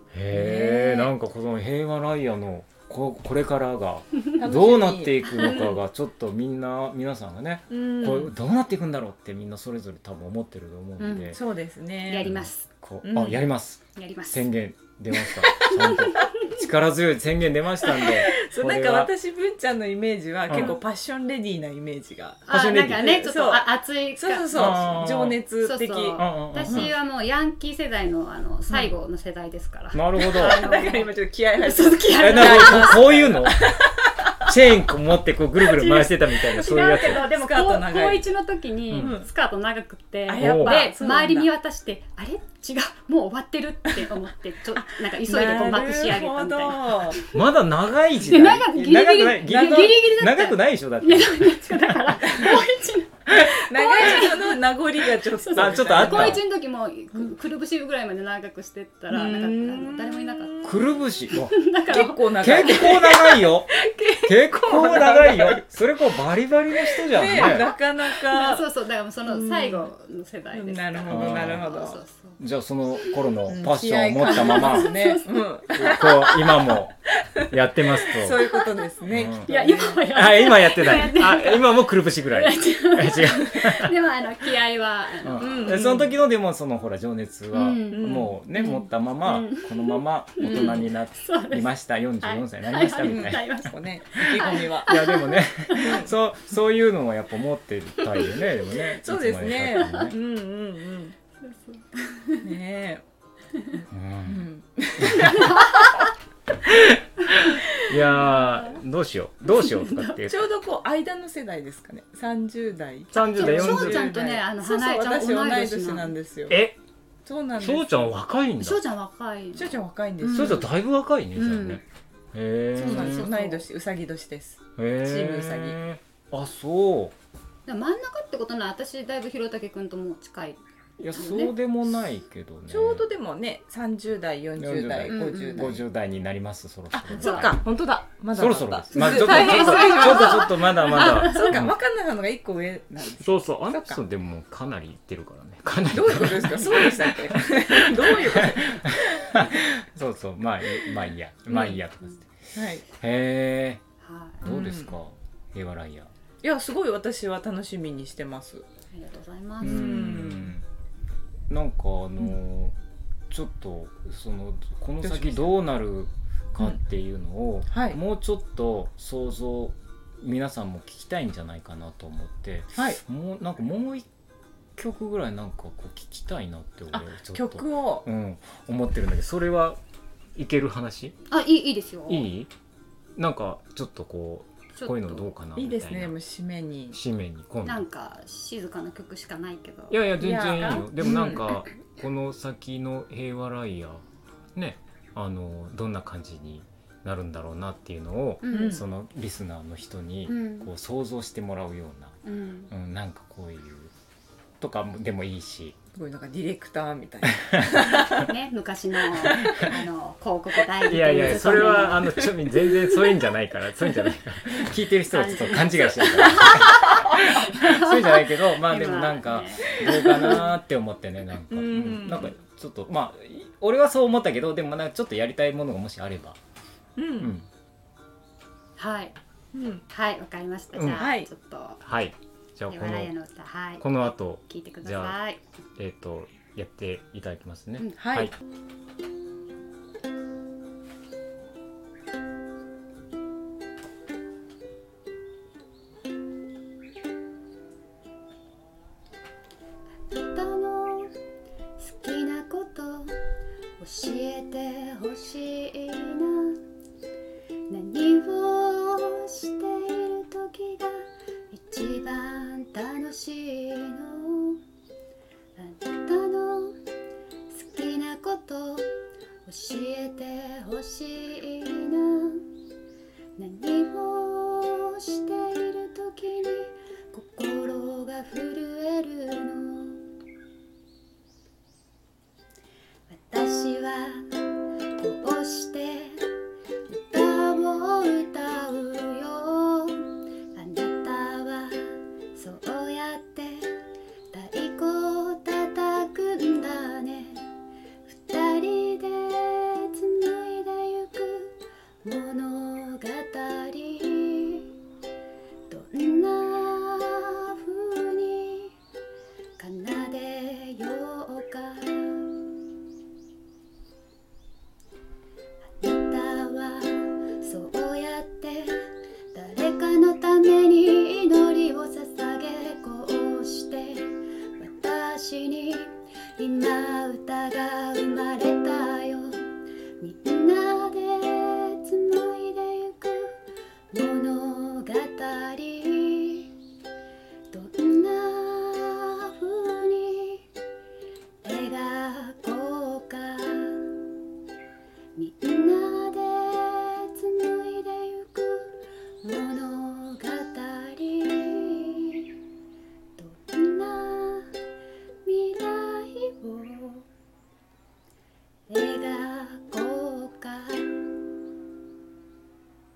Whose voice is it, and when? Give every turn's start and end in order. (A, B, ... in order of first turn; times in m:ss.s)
0:00.1-0:11.4 A
0:00.3-0:01.1 B
0:04.4-0:05.8 B
0:07.7-0:08.4 B
0:11.0-0:11.4 C
0:11.3-0:12.3 B
0:12.0-0:12.7 C
0:12.2-0:19.1 A
0:13.0-0:13.4 B
0:14.0-0:14.5 C
0:15.2-0:16.5 B
0:15.6-0:16.6 C
0:17.8-0:26.9 B
0:20.5-0:20.8 A
0:20.5-0:20.8 C
0:22.5-0:25.1 C
0:22.5-0:23.1 A
0:24.5-0:25.4 A
0:25.6-0:33.2 C
0:26.2-0:26.9 A
0:29.9-0:30.6 A
0:30.2-0:34.5 B
0:32.2-0:33.7 A
0:34.4-0:37.3 A
0:35.7-0:38.3 B
0:35.8-0:47.4 C
0:39.0-0:39.3 B
0:40.3-0:41.5 B
0:40.4-0:40.8 A
0:44.8-0:47.2 B
0:47.3-0:52.2 A
0:48.2-1:00.8 C
0:52.3-0:52.6 B
0:53.3-0:53.6 A
0:53.5-0:56.4 B
0:55.5-0:56.4 A
0:59.1-1:00.8 B
1:00.6-1:01.6 A
1:01.3-1:03.1 C
1:01.9-1:05.6 B
1:02.4-1:07.7 A
1:06.9-1:08.7 B
1:07.4-1:12.4 C
1:09.3-1:09.9 B
1:10.5-1:12.0 B
1:11.1-1:11.7 A
1:12.4-1:14.9 A
1:13.0-1:13.3 C
1:13.5-1:20.1 B
1:14.2-1:15.3 C
1:15.8-1:18.5 A
1:18.4-1:18.7 C
1:19.1-1:19.5 A
1:19.4-1:25.9 C
1:20.0-1:23.9 A
1:25.2-1:33.5 A
1:25.4-1:26.1 B
1:27.5-1:36.0 C
1:27.9-1:28.4 B
1:30.4-1:30.9 B
1:33.0-1:35.0 B
1:34.2-1:40.2 A
1:35.8-1:36.1 B
1:38.8-1:41.2 B
1:39.8-1:40.1 C
1:41.4-1:42.5 C
1:42.4-1:43.0 B
1:43.7-1:46.1 B
1:43.9-1:44.5 A
1:45.0-1:45.5 A
1:45.2-1:46.1 C
1:46.6-1:50.5 A
1:48.1-1:48.8 C
1:49.6-1:50.2 C
1:50.2-1:56.6 B
1:53.1-1:54.1 A
1:53.2-1:56.1 C
1:56.5-1:56.8 A
1:57.3-1:58.1 B
1:57.6-1:58.8 A
1:58.6-2:00.7 C
1:59.6-2:00.7 B
2:00.3-2:01.8 A
2:01.4-2:01.8 C
2:02.3-2:03.3 A
2:02.8-2:05.8 B
2:02.8-2:03.6 C
2:04.8-2:07.2 A
2:07.7-2:10.6 C
2:11.0-2:13.1 A
2:11.1-2:11.5 C
2:12.7-2:15.8 B
2:14.6-2:17.6 A
2:15.1-2:15.7 C
2:16.9-2:24.0 B
2:17.1-2:17.5 C
2:18.3-2:21.8 A
2:19.0-2:21.6 C
2:23.2-2:33.8 A
2:25.9-2:29.5 B
2:31.5-2:31.8 B
2:32.6-2:32.8 B
2:34.0-2:34.5 C
2:34.4-2:36.1 A
2:34.5-2:34.9 B
2:36.4-2:38.6 B
2:38.9-2:40.0 C
2:39.6-2:40.6 B
2:39.6-2:40.6 A
2:41.5-2:42.8 A
2:43.3-2:54.1 A
2:45.0-2:45.5 B
2:47.7-2:48.0 B
2:52.8-2:53.0 B
2:54.8-2:59.8 A
2:56.9-2:58.1 B
3:00.4-3:01.2 A
3:01.3-3:02.3 C
3:02.1-3:02.5 A
3:03.2-3:06.2 A
3:04.8-3:05.3 C
3:05.6-3:07.0 B
3:06.9-3:07.9 A
3:07.6-3:10.0 C
3:09.9-3:22.2 A
3:10.2-3:11.6 B
3:18.4-3:18.8 C
3:18.5-3:18.8 B
3:20.3-3:20.7 C
3:22.2-3:22.7 C
3:22.7-3:23.9 A
3:24.6-3:25.8 A
3:25.9-3:28.3 B
3:27.9-3:32.1 C
3:29.1-3:29.7 B
3:30.9-3:46.4 A
3:31.1-3:32.4 B
3:35.1-3:40.5 C
3:39.8-3:40.4 B
3:41.5-3:42.3 B
3:47.0-3:47.3 B
3:47.2-3:47.5 A
3:48.8-3:49.2 C
3:49.5-3:49.8 B
3:49.9-3:51.8 C
3:50.7-3:51.0 A
3:51.0-3:51.3 B
3:51.8-3:53.1 A
3:52.7-3:55.4 C
3:53.8-3:55.2 A
3:55.8-3:58.3 A
3:58.0-3:58.3 B
4:10.1-4:11.2 C
4:11.8-4:13.2 C
4:13.8-4:16.6 C
4:17.7-4:24.6 C
4:25.6-4:26.8 C
4:27.5-4:28.9 C
4:29.5-4:32.4 C
4:33.4-4:40.0 C
4:43.1-4:44.3 C
4:45.0-4:46.2 C
4:46.9-4:53.8 C
4:54.3-4:57.5 C
4:58.1-5:04.6 C
5:05.7-5:08.7 C
5:09.6-5:12.3 C
5:15.8-5:18.8 C
5:19.3-5:29.5 C
5:30.0-5:33.3 C
5:33.9-5:36.5 C
5:37.5-5:40.5 C
5:41.4-5:43.9 C
5:45.2-5:52.3 C
5:53.2-5:54.5 C
5:55.2-5:57.1 C
5:58.7-6:01.0 C